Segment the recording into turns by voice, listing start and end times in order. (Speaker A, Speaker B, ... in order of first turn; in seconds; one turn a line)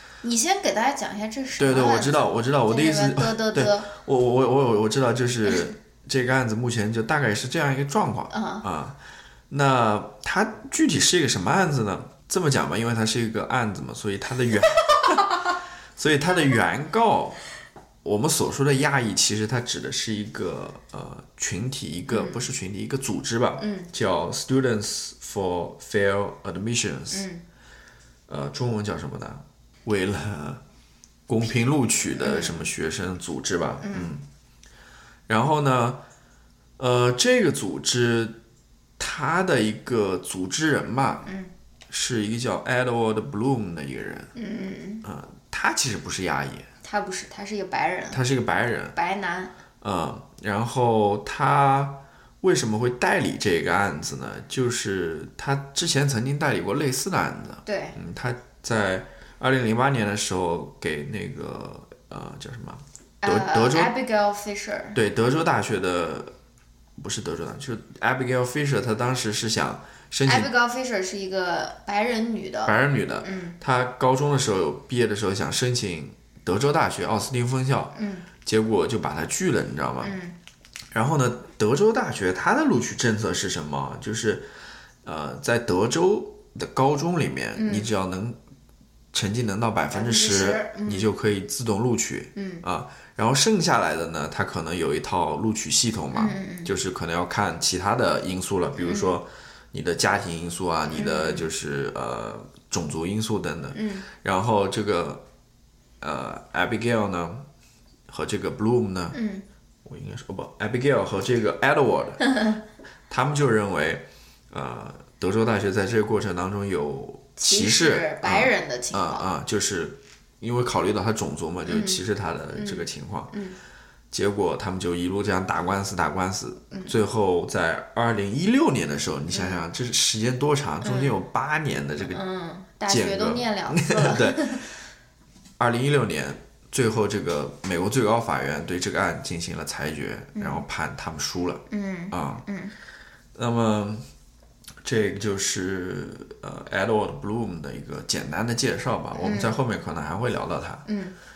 Speaker A: 0.2-3.9
Speaker B: 1.6-9.0
Speaker A: 8.3-8.6
Speaker B: 9.5-15.4
Speaker B: 15.9-17.4
Speaker B: 18.0-27.3
Speaker A: 22.1-22.4
Speaker A: 23.6-23.9
Speaker A: 27.1-27.4
Speaker B: 28.3-30.6
Speaker B: 31.3-34.2
Speaker A: 32.2-32.7
Speaker A: 33.8-34.1
Speaker B: 35.3-36.0
Speaker B: 36.8-38.4
Speaker B: 39.0-41.3
Speaker A: 41.2-41.5
Speaker B: 41.9-44.3
Speaker A: 44.3-45.0
Speaker B: 45.0-46.7
Speaker A: 46.8-48.2
Speaker B: 48.1-48.9
Speaker A: 48.9-49.5
Speaker B: 49.8-63.9
Speaker A: 57.6-58.0
Speaker A: 63.2-65.0
Speaker B: 64.9-66.3
Speaker B: 67.0-70.5
Speaker A: 70.2-73.5
Speaker B: 72.6-80.1
Speaker A: 77.9-78.2
Speaker A: 80.0-80.3
Speaker B: 80.9-84.5
Speaker B: 85.0-88.4
Speaker A: 87.5-87.9
Speaker B: 89.1-105.2
Speaker A: 89.9-91.1
Speaker A: 92.3-92.6
Speaker A: 96.1-96.7
Speaker A: 98.8-99.1
Speaker A: 100.9-101.5
Speaker A: 103.7-104.0
Speaker B: 106.0-107.5
Speaker B: 108.1-109.2
Speaker A: 109.1-109.4
Speaker B: 109.8-112.2
Speaker A: 112.3-112.5
Speaker B: 113.1-123.3
Speaker A: 117.4-119.2
Speaker A: 121.7-122.0
Speaker A: 122.5-123.5
Speaker B: 124.1-132.2
Speaker A: 129.3-129.6
Speaker A: 130.8-131.2
Speaker A: 132.0-134.6
Speaker B: 132.9-134.8
Speaker B: 135.6-142.4
Speaker A: 140.3-140.6
Speaker A: 141.7-142.7
Speaker B: 143.3-144.1
Speaker B: 144.8-150.8
Speaker A: 149.2-149.6
Speaker A: 150.9-151.1